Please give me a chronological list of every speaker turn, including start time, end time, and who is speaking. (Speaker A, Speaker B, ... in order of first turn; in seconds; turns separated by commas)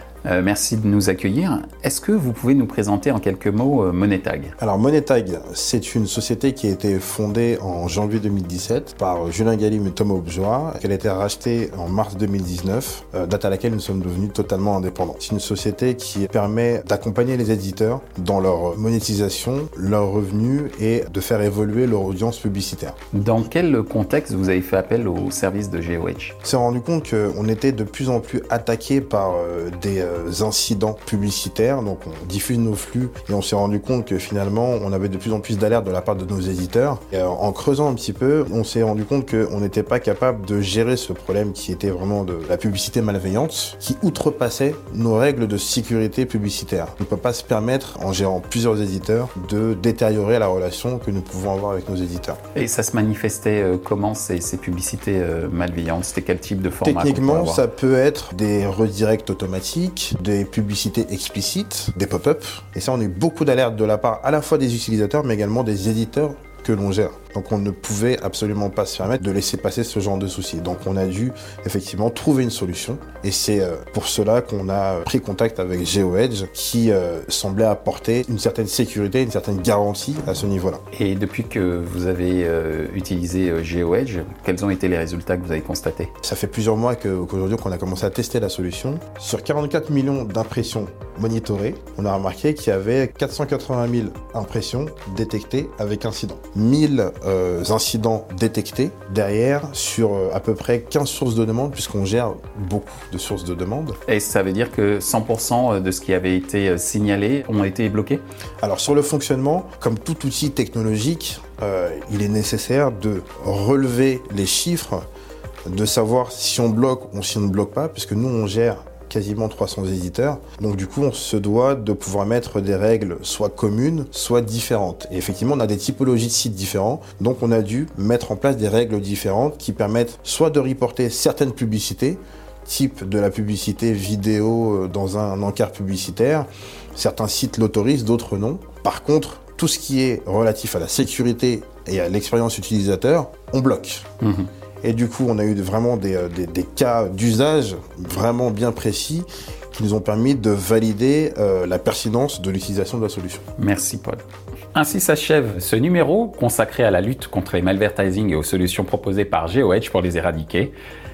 Speaker A: 0.2-4.5, Speaker B: 4.6-22.9, Speaker A: 23.1-26.3, Speaker B: 26.4-52.4, Speaker A: 52.5-57.6, Speaker B: 56.8-80.8, Speaker A: 80.9-86.1, Speaker B: 86.2-104.0, Speaker A: 104.1-108.2, Speaker B: 108.6-115.0, Speaker B: 115.7-144.0, Speaker A: 144.2-144.5, Speaker B: 144.8-153.4, Speaker A: 153.6-160.7